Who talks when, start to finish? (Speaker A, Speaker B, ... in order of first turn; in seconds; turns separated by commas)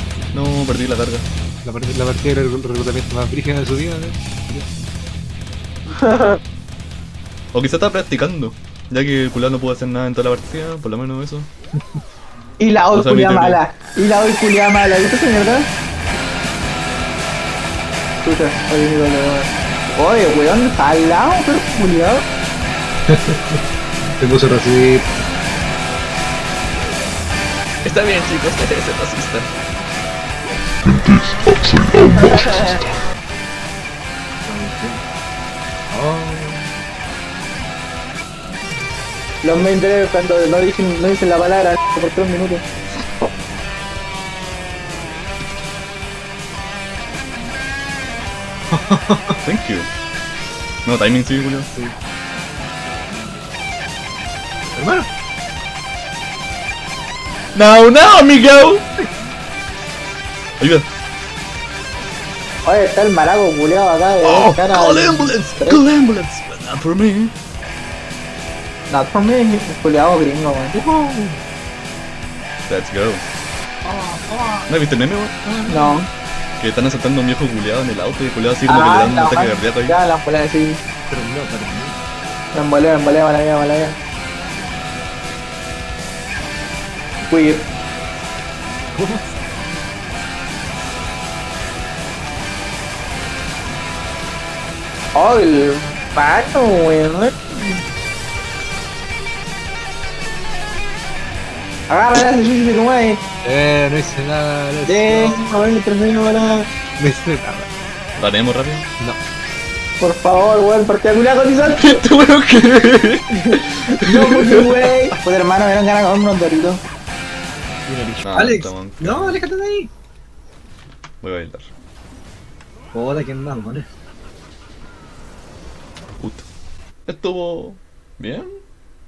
Speaker A: 0.3-1.3, Speaker B: 1.6-4.7, Speaker C: 6.0-6.4, Speaker A: 7.5-11.5, Speaker C: 12.6-15.7, Speaker A: 12.9-13.6, Speaker C: 18.2-22.2, Speaker B: 23.1-23.6, Speaker B: 24.2-25.1, Speaker A: 27.8-29.5, Speaker C: 32.0-32.8, Speaker B: 34.5-35.0, Speaker B: 35.9-36.7, Speaker C: 39.4-42.6, Speaker B: 48.7-49.4, Speaker A: 49.5-49.9, Speaker A: 50.9-51.7, Speaker B: 54.7-55.1, Speaker A: 57.5-58.8, Speaker A: 60.6-60.9, Speaker C: 62.6-65.8, Speaker A: 64.2-67.3, Speaker C: 68.9-70.8, Speaker B: 70.8-71.4, Speaker A: 72.7-73.3, Speaker B: 73.9-74.7, Speaker A: 74.7-75.3, Speaker B: 75.4-76.0, Speaker C: 75.7-76.1, Speaker A: 76.6-80.0, Speaker C: 78.7-80.8, Speaker B: 81.1-82.0, Speaker C: 82.5-84.0, Speaker C: 87.3-87.7, Speaker B: 88.9-89.3, Speaker C: 95.2-97.8, Speaker C: 101.9-103.2, Speaker B: 103.4-105.4, Speaker C: 104.9-106.7, Speaker B: 107.0-107.7, Speaker A: 108.2-108.9, Speaker C: 110.0-112.0, Speaker A: 111.8-114.7, Speaker C: 113.5-116.8, Speaker B: 117.9-119.9, Speaker A: 118.2-119.4, Speaker A: 121.2-121.7, Speaker B: 122.9-123.9, Speaker A: 127.1-128.5